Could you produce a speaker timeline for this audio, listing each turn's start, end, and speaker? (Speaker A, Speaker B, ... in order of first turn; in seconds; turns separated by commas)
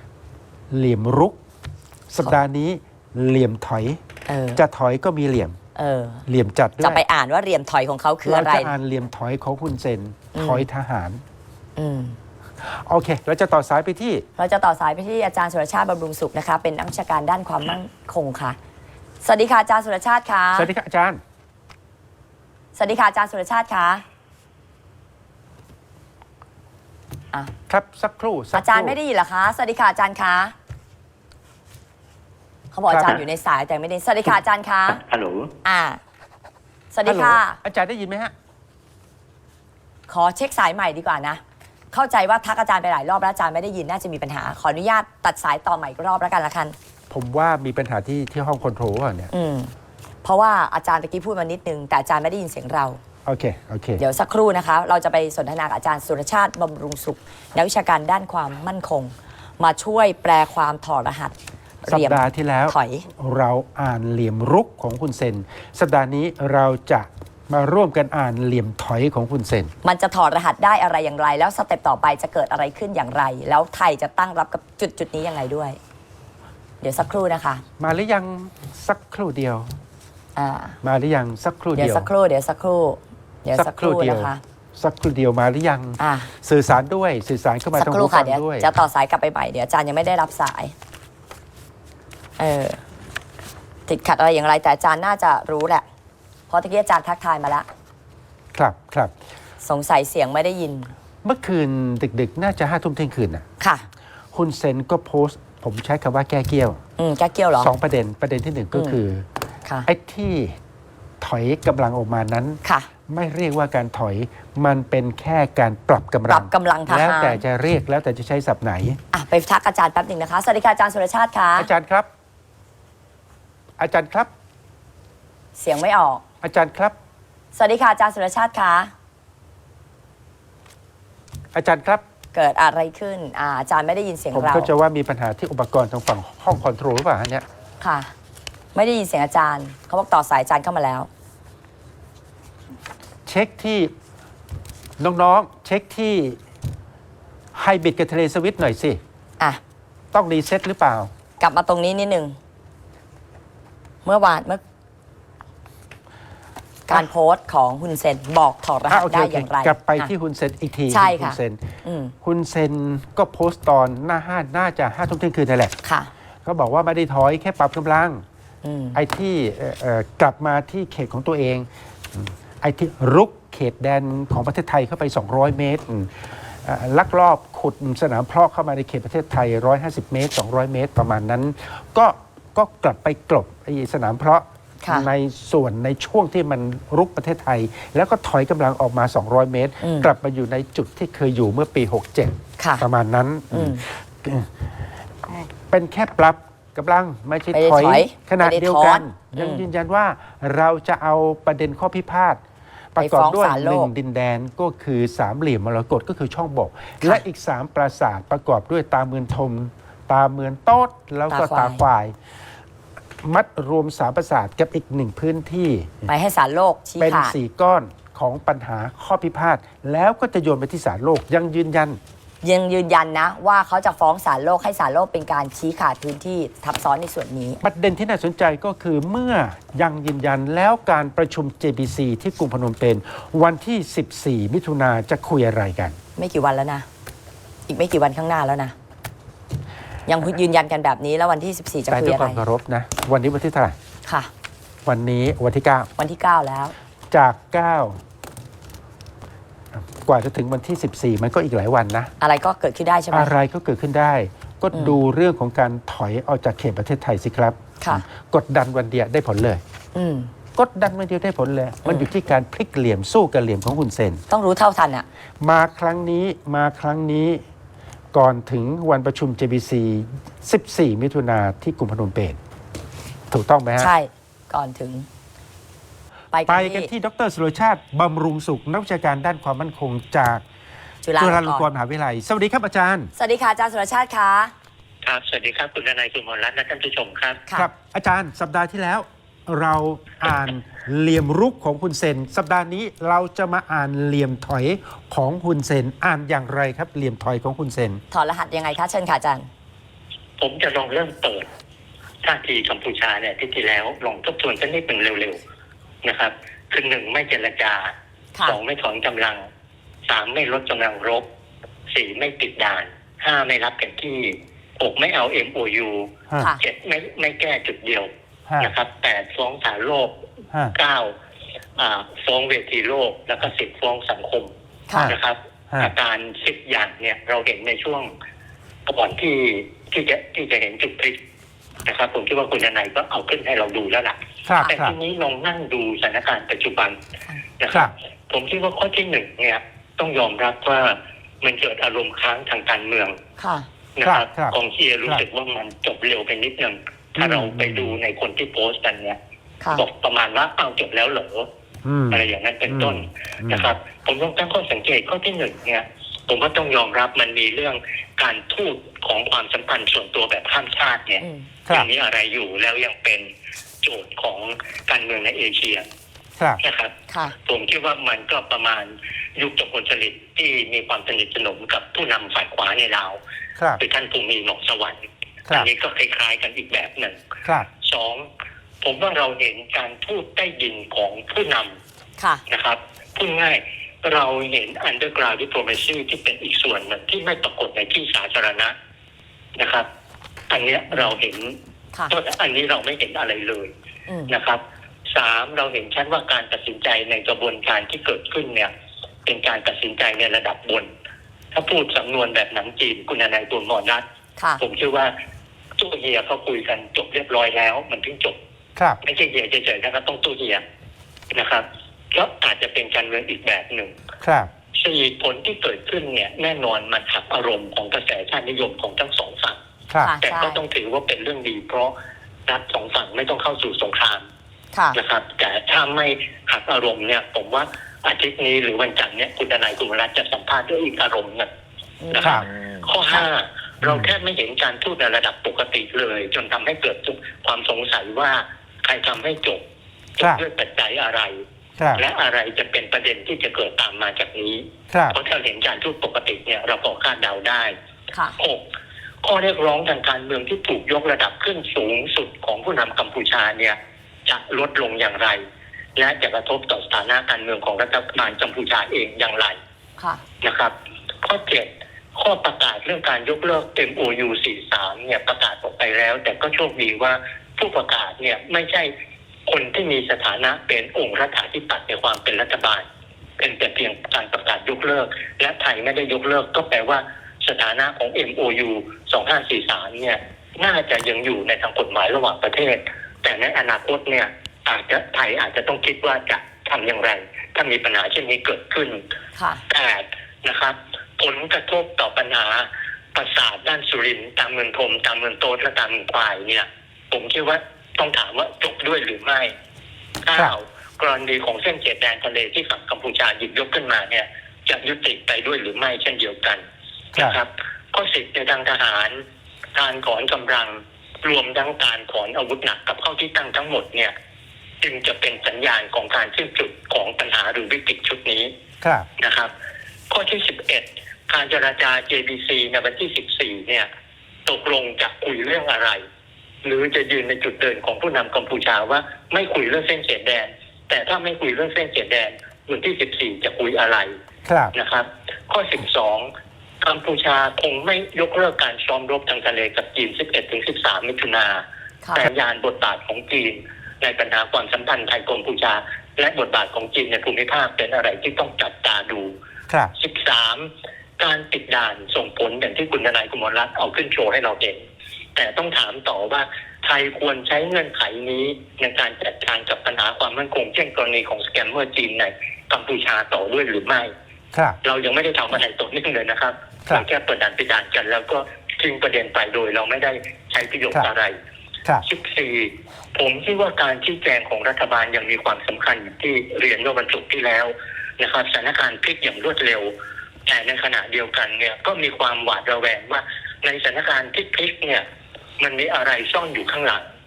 Speaker A: 0.7-1.4, Speaker A: 2.1-4.0, Speaker B: 4.3-4.6, Speaker A: 4.5-5.6, Speaker B: 5.8-6.2, Speaker A: 6.3-7.0, Speaker B: 6.8-8.8, Speaker A: 8.2-11.2, Speaker B: 10.3-10.7, Speaker B: 11.8-12.2, Speaker A: 12.6-14.2, Speaker B: 14.4-18.6, Speaker B: 19.2-20.7, Speaker A: 20.5-21.2, Speaker B: 22.8-24.0, Speaker A: 27.7-28.9, Speaker B: 28.5-30.6, Speaker B: 32.7-35.0, Speaker A: 32.9-33.2, Speaker C: 34.9-35.5, Speaker B: 35.6-36.0, Speaker B: 36.9-37.6, Speaker A: 37.0-38.3, Speaker B: 40.1-46.8, Speaker A: 47.1-49.3, Speaker B: 49.3-49.7, Speaker B: 50.2-53.0, Speaker A: 53.2-54.0, Speaker B: 54.0-63.1, Speaker A: 61.9-69.7, Speaker B: 69.8-75.8, Speaker B: 76.8-77.6, Speaker A: 77.8-79.7, Speaker B: 80.4-80.8, Speaker A: 80.8-82.1, Speaker B: 81.8-84.4, Speaker A: 83.5-88.7, Speaker B: 86.0-86.3, Speaker B: 87.8-90.8, Speaker B: 92.4-92.8, Speaker B: 93.9-95.9, Speaker B: 96.5-97.7, Speaker A: 98.5-99.1, Speaker B: 99.6-100.9, Speaker A: 101.2-103.5, Speaker B: 103.6-103.9, Speaker A: 104.3-106.8, Speaker B: 107.0-107.7, Speaker A: 107.6-109.3, Speaker B: 108.7-109.0, Speaker A: 109.9-110.6, Speaker A: 111.2-119.0, Speaker B: 112.6-112.9, Speaker B: 116.3-117.4, Speaker B: 119.1-121.7, Speaker A: 121.6-122.1, Speaker A: 123.8-124.3, Speaker B: 125.6-126.2, Speaker A: 126.4-127.0, Speaker B: 127.5-128.9, Speaker A: 131.5-132.0, Speaker B: 132.3-134.7, Speaker A: 134.3-137.4, Speaker B: 137.8-138.1, Speaker B: 138.7-141.1, Speaker A: 143.3-143.9, Speaker A: 145.0-146.4, Speaker A: 147.5-149.0, Speaker A: 150.1-151.1, Speaker B: 151.4-152.4, Speaker B: 154.1-154.6, Speaker B: 156.9-160.1, Speaker A: 158.9-165.8, Speaker B: 160.9-162.2, Speaker B: 165.8-166.1, Speaker A: 166.4-168.2, Speaker B: 168.6-169.0, Speaker A: 168.9-194.5, Speaker B: 184.8-185.1, Speaker B: 189.8-190.1, Speaker B: 192.6-192.9, Speaker B: 193.5-193.8, Speaker A: 195.3-202.4, Speaker B: 197.5-199.6, Speaker A: 202.9-212.2, Speaker B: 203.0-203.9, Speaker B: 211.3-211.9, Speaker A: 213.2-216.1, Speaker B: 216.1-217.3, Speaker A: 217.0-222.0, Speaker B: 222.4-227.6, Speaker A: 227.6-236.0, Speaker B: 236.2-236.9, Speaker B: 237.7-238.8, Speaker B: 240.1-242.4, Speaker A: 241.9-243.8, Speaker B: 244.1-244.3, Speaker A: 244.8-245.9, Speaker B: 246.0-246.7, Speaker A: 247.1-248.0, Speaker A: 249.7-252.1, Speaker B: 252.2-253.3, Speaker A: 253.1-259.6, Speaker B: 259.9-260.3, Speaker A: 260.6-264.2, Speaker B: 264.3-265.1, Speaker A: 265.4-267.4, Speaker A: 268.1-272.4, Speaker A: 273.3-273.9, Speaker B: 273.8-275.1, Speaker B: 276.3-276.9, Speaker A: 276.5-280.4, Speaker B: 281.0-281.7, Speaker A: 281.2-283.1, Speaker B: 283.2-284.5, Speaker C: 285.0-287.5, Speaker A: 287.5-298.0, Speaker B: 298.1-299.5, Speaker C: 300.4-301.5, Speaker C: 302.2-305.4, Speaker C: 306.0-309.4, Speaker C: 310.1-311.2, Speaker C: 311.9-320.2, Speaker A: 318.5-318.7, Speaker C: 320.7-321.1, Speaker C: 321.8-324.5, Speaker A: 324.9-325.2, Speaker C: 325.1-328.1, Speaker C: 328.9-331.2, Speaker C: 331.9-337.0, Speaker A: 334.5-335.0, Speaker C: 337.6-343.2, Speaker B: 343.4-343.7, Speaker C: 344.0-349.2, Speaker A: 344.0-345.2, Speaker A: 347.2-348.0, Speaker C: 349.7-351.5, Speaker A: 351.8-353.7, Speaker C: 352.1-363.3, Speaker B: 361.2-361.5, Speaker C: 363.8-365.9, Speaker C: 366.6-373.2, Speaker B: 367.1-367.4, Speaker C: 373.8-377.2, Speaker C: 377.8-378.2, Speaker C: 378.8-381.8, Speaker B: 382.2-382.4, Speaker C: 382.5-388.8, Speaker C: 389.6-389.9, Speaker C: 390.5-391.6, Speaker C: 392.1-393.7, Speaker B: 394.1-394.3, Speaker C: 394.3-398.7, Speaker C: 399.2-400.9, Speaker C: 401.5-404.0, Speaker C: 404.6-405.1, Speaker C: 405.8-408.4, Speaker C: 409.0-410.6, Speaker C: 411.3-413.9, Speaker A: 414.2-414.5, Speaker C: 414.7-419.6, Speaker A: 419.9-420.1, Speaker B: 420.0-420.6, Speaker C: 420.2-421.9, Speaker C: 422.5-424.2, Speaker B: 424.7-425.0, Speaker C: 424.9-431.5, Speaker B: 432.0-433.2, Speaker C: 432.1-439.6, Speaker A: 432.2-432.5, Speaker A: 433.8-434.1, Speaker C: 440.2-441.4, Speaker A: 441.8-442.0, Speaker C: 441.9-447.7, Speaker A: 444.9-445.2, Speaker B: 448.1-448.4, Speaker C: 448.4-448.6, Speaker C: 449.2-455.4, Speaker C: 456.0-459.6, Speaker B: 460.0-460.2, Speaker C: 460.4-468.9, Speaker C: 469.5-472.9, Speaker C: 473.4-489.0, Speaker B: 489.4-489.6, Speaker C: 489.7-499.5, Speaker C: 500.2-506.6, Speaker A: 507.1-507.4, Speaker C: 507.2-509.2, Speaker C: 509.8-514.1, Speaker C: 514.8-518.5, Speaker A: 518.8-519.1, Speaker C: 519.2-519.5, Speaker C: 520.1-523.9, Speaker C: 524.5-526.0, Speaker C: 526.6-534.1, Speaker A: 534.5-534.7, Speaker C: 534.7-536.3, Speaker C: 536.8-549.3, Speaker B: 542.0-542.3, Speaker C: 550.0-554.8, Speaker C: 555.4-564.1, Speaker C: 564.8-571.4, Speaker C: 572.0-579.9, Speaker C: 580.5-585.0, Speaker C: 585.6-587.1